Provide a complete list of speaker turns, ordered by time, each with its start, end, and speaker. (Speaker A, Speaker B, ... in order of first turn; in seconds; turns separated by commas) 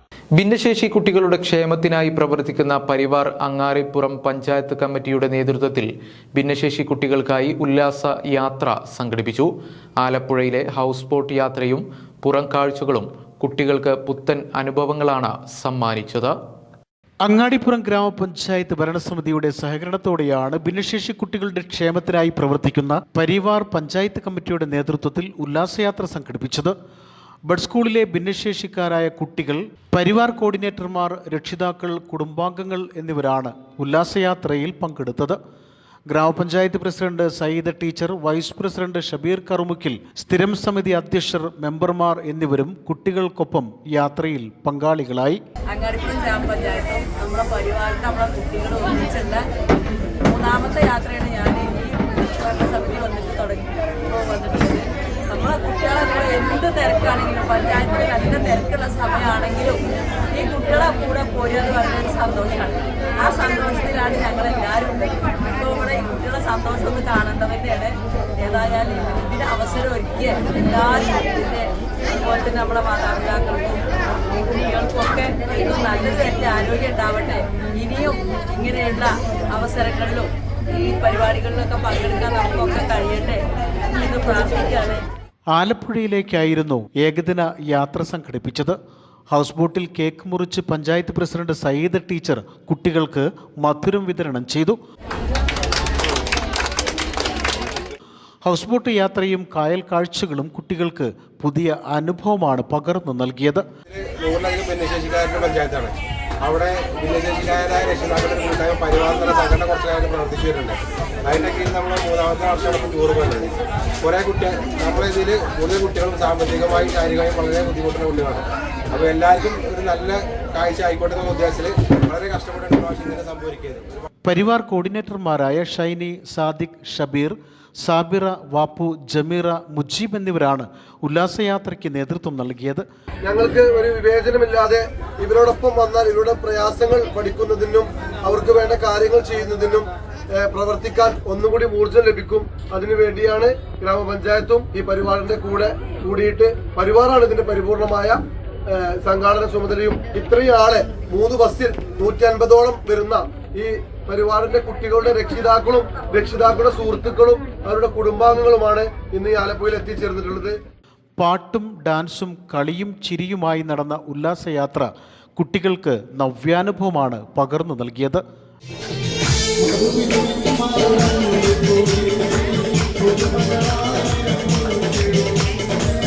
Speaker A: 0.3-16.3, Speaker B: 17.2-26.8, Speaker B: 27.4-35.4, Speaker B: 36.1-45.4, Speaker C: 45.7-49.5, Speaker C: 50.3-59.8, Speaker C: 60.3-73.8, Speaker C: 74.4-85.0, Speaker B: 85.5-88.8, Speaker B: 89.3-94.8, Speaker B: 98.4-103.6, Speaker D: 103.9-105.9, Speaker D: 106.4-113.5, Speaker D: 114.0-118.4, Speaker D: 119.0-123.8, Speaker B: 124.2-132.8, Speaker E: 133.2-148.2, Speaker E: 148.7-160.5, Speaker B: 161.2-168.2